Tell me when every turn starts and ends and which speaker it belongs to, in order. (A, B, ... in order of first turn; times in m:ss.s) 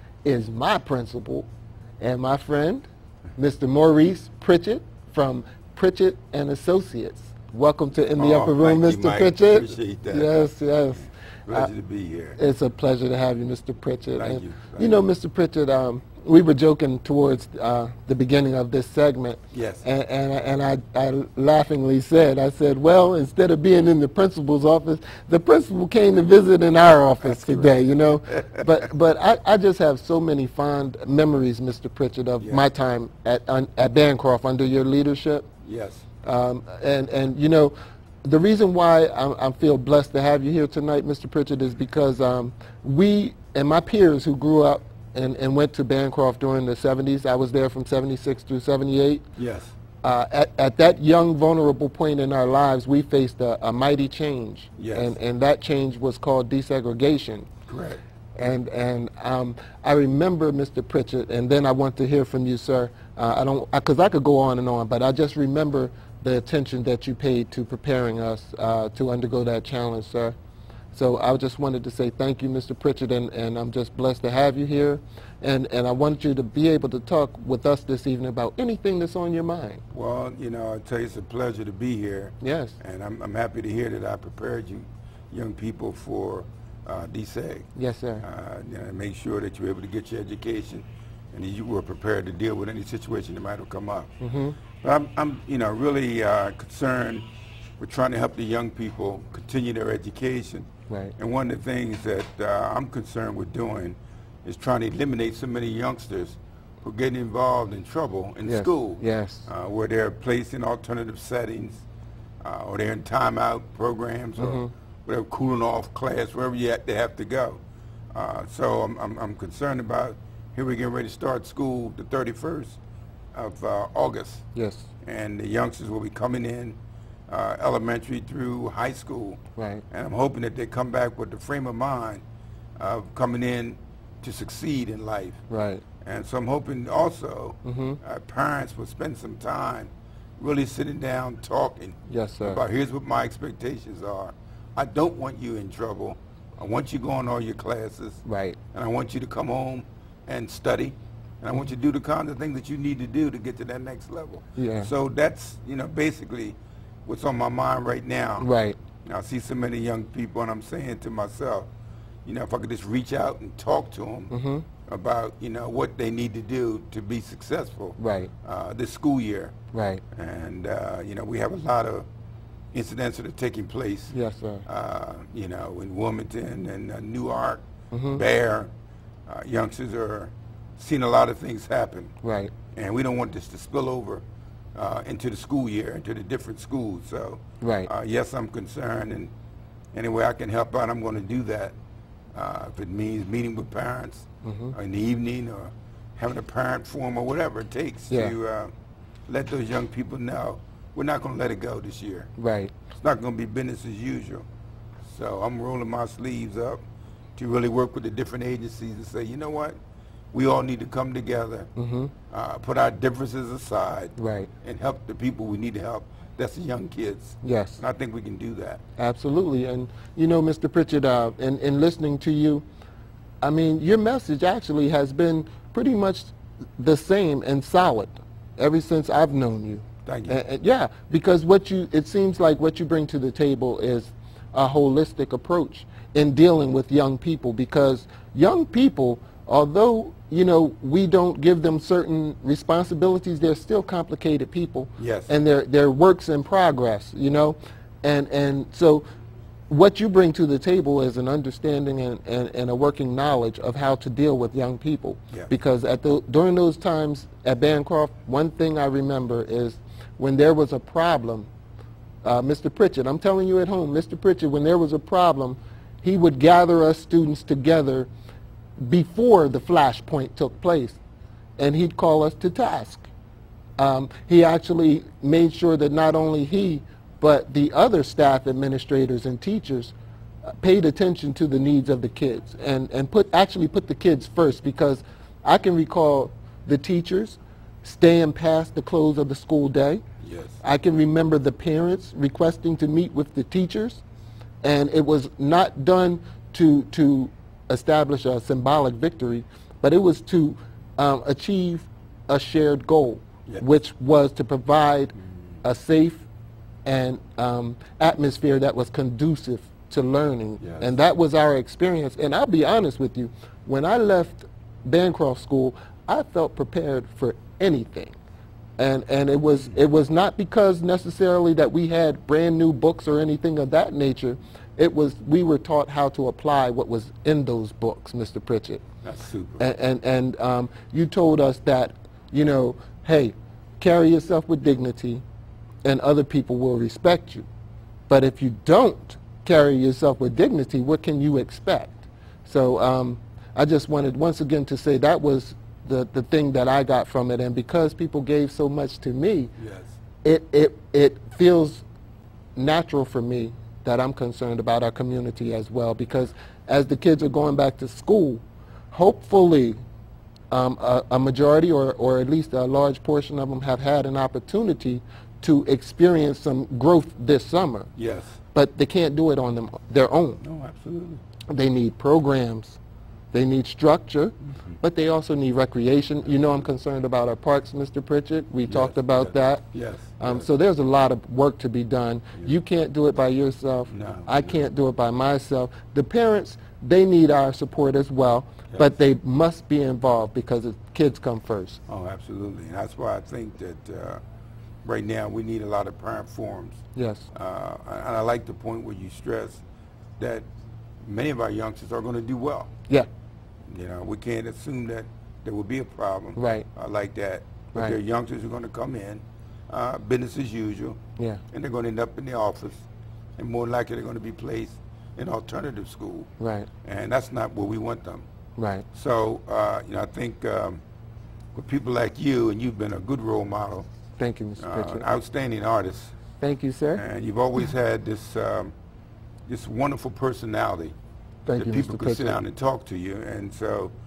0:00.2-0:01.5 A
0:02.0-0:11.7 A
0:08.2-0:10.4 B
0:11.5-0:12.4 B
0:12.4-0:35.5 A
0:14.1-0:15.0 B
0:19.5-0:19.8 B
0:27.2-0:28.6 B
0:32.4-0:32.6 B
0:35.6-0:36.0 B
0:36.2-0:37.7 A
0:38.2-0:49.2 A
0:49.4-0:49.7 B
0:50.0-0:57.5 A
0:54.8-0:55.1 B
0:57.7-0:58.0 B
0:58.4-1:10.4 A
1:10.9-1:19.8 A
1:19.9-1:27.7 B
1:22.4-1:22.8 A
1:27.8-1:28.2 A
1:28.2-1:34.1 B
1:34.2-1:34.6 A
1:34.8-1:37.2 B
1:37.8-1:51.8 B
1:40.9-1:41.1 A
1:48.4-1:49.5 A
1:52.4-1:57.6 B
1:54.4-1:54.7 A
1:58.1-2:02.8 B
2:03.3-2:04.4 B
2:04.5-2:04.9 A
2:05.0-2:06.8 B
2:07.3-2:12.2 B
2:09.6-2:09.8 A
2:12.8-2:15.4 B
2:15.5-2:15.8 A
2:16.0-2:38.5 B
2:17.6-2:18.0 A
2:22.1-2:22.6 A
2:28.2-2:28.6 A
2:34.6-2:34.9 A
2:38.4-2:38.8 A
2:39.0-2:41.7 B
2:42.2-2:44.3 B
2:44.3-2:44.6 A
2:44.9-2:49.5 B
2:48.0-2:48.3 A
2:49.7-2:50.0 A
2:50.1-2:52.0 B
2:52.7-2:54.1 B
2:54.1-2:54.6 A
2:54.6-2:58.7 B
2:57.9-2:58.2 A
2:59.2-3:02.1 B
3:02.2-3:02.5 A
3:02.7-3:04.2 B
3:04.7-3:09.3 B
3:07.6-3:07.9 A
3:09.9-3:11.7 B
3:12.3-3:18.7 B
3:14.4-3:14.7 A
3:19.3-3:22.3 B
3:22.4-3:22.7 A
3:23.0-3:24.4 B
3:25.0-3:26.8 B
3:27.4-3:29.8 B
3:30.3-3:31.7 B
3:31.8-3:32.1 A
3:32.3-3:38.8 B
3:34.2-3:34.5 A
3:37.4-3:37.8 A
3:39.0-3:42.6 A
3:43.4-4:09.0 A
3:50.0-3:50.4 B
4:05.0-4:05.3 B
4:09.7-4:21.5 A
4:22.2-4:28.1 A
4:28.8-4:31.0 A
4:31.6-4:33.1 A
4:33.8-4:39.9 A
4:40.4-4:50.0 A
4:50.2-4:50.6 B
4:50.6-4:54.0 A
4:54.6-5:06.2 A
5:06.8-5:18.2 A
5:10.6-5:10.9 B
5:18.8-5:28.8 A
5:29.0-5:29.6 B
5:29.6-5:35.2 A
5:35.8-5:37.4 A
5:38.1-5:49.5 A
5:49.6-5:50.0 B
5:50.2-5:51.8 A
5:52.6-5:59.8 A
6:00.5-6:07.9 A
6:08.0-6:08.4 B
6:08.5-6:10.4 A
6:10.4-6:11.2 B
6:11.5-6:12.8 A
6:13.3-6:19.6 A
6:14.5-6:14.8 B
6:18.7-6:20.5 B
6:20.2-6:31.8 A
6:23.9-6:24.6 B
6:31.9-6:34.2 B
6:34.8-6:36.8 B
6:36.9-6:37.3 A
6:37.3-6:39.6 B
6:40.2-6:40.4 B
6:41.0-6:42.7 B
6:43.7-6:51.0 B
6:46.4-6:46.7 A
6:51.2-6:51.4 A
6:51.5-6:52.8 B
6:53.4-6:56.3 B
6:56.4-6:56.7 A
6:56.8-6:58.2 B
6:58.6-6:58.8 A
6:58.9-7:00.8 B
7:01.5-7:03.9 B
7:04.2-7:05.0 A
7:04.6-7:06.1 B
7:06.4-7:07.0 A
7:06.9-7:08.7 B
7:09.5-7:10.9 B
7:11.4-7:12.4 A
7:11.5-7:13.9 B